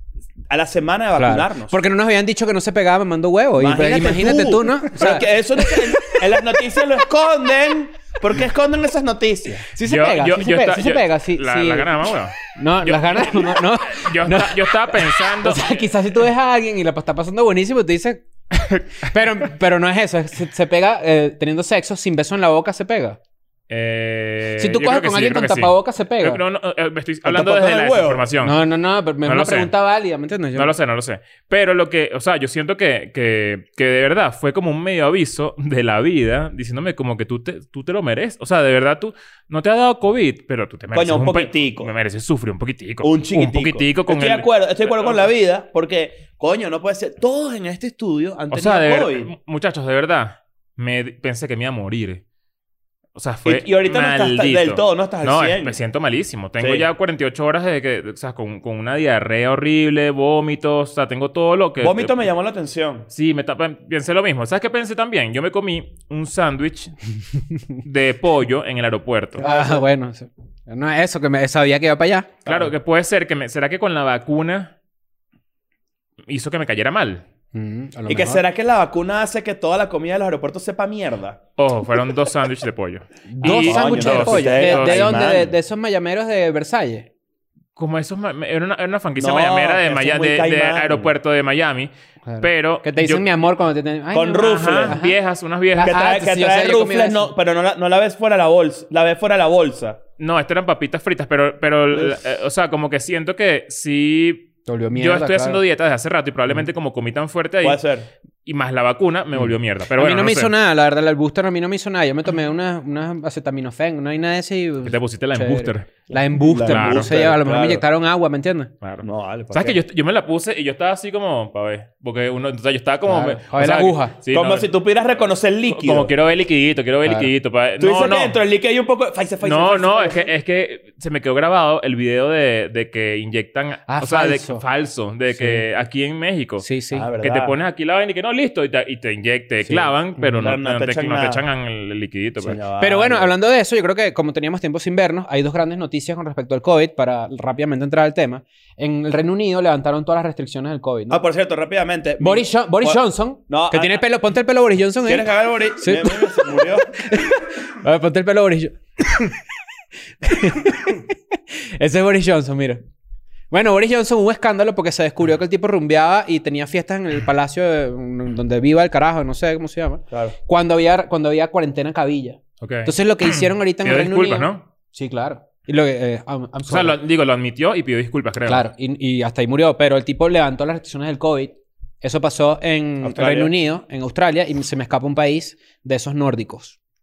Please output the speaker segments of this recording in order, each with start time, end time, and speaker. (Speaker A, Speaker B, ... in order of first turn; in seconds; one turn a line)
Speaker A: 0.5-1.8
Speaker B: 1.1-6.2
Speaker A: 3.6-9.7
Speaker B: 9.7-23.2
Speaker C: 9.8-15.9
Speaker C: 23.7-28.6
Speaker B: 24.6-26.4
Speaker A: 27.2-28.3
Speaker B: 28.4-30.7
Speaker C: 29.2-29.7
Speaker C: 30.5-45.2
Speaker A: 40.9-41.9
Speaker A: 43.0-49.3
Speaker C: 48.5-52.2
Speaker C: 53.1-62.1
Speaker A: 53.4-55.8
Speaker A: 56.6-56.9
Speaker A: 61.8-63.1
Speaker C: 63.1-66.9
Speaker C: 67.8-69.4
Speaker A: 69.3-69.8
Speaker B: 69.4-72.3
Speaker A: 72.4-72.7
Speaker C: 72.5-74.7
Speaker C: 76.3-77.2
Speaker B: 77.5-78.4
Speaker A: 78.1-81.4
Speaker C: 81.6-85.3
Speaker B: 83.3-87.1
Speaker A: 83.4-85.5
Speaker C: 87.8-91.9
Speaker A: 89.2-91.1
Speaker B: 92.2-95.2
Speaker C: 92.4-93.2
Speaker A: 94.1-95.0
Speaker C: 94.4-96.0
Speaker B: 95.7-97.3
Speaker A: 95.8-100.0
Speaker C: 100.2-107.8
Speaker B: 104.7-105.6
Speaker A: 107.6-108.1
Speaker C: 108.4-110.5
Speaker B: 109.3-118.7
Speaker C: 114.8-115.9
Speaker A: 116.1-117.8
Speaker C: 116.7-117.1
Speaker C: 118.8-124.7
Speaker A: 119.0-119.8
Speaker B: 123.0-124.1
Speaker A: 124.3-126.1
Speaker C: 125.7-128.4
Speaker B: 127.0-127.3
Speaker A: 127.8-130.3
Speaker C: 129.4-136.7
Speaker B: 133.9-134.6
Speaker B: 135.3-135.6
Speaker B: 136.6-137.1
Speaker A: 136.9-137.5
Speaker C: 137.2-142.6
Speaker B: 139.7-140.3
Speaker A: 140.3-141.4
Speaker A: 142.4-143.3
Speaker B: 142.8-151.2
Speaker A: 151.1-154.0
Speaker B: 152.2-159.4
Speaker A: 155.1-156.9
Speaker B: 160.2-162.8
Speaker B: 163.5-177.0
Speaker A: 170.1-170.3
Speaker C: 172.6-174.6
Speaker C: 176.7-178.7
Speaker B: 178.5-186.8
Speaker A: 183.0-183.5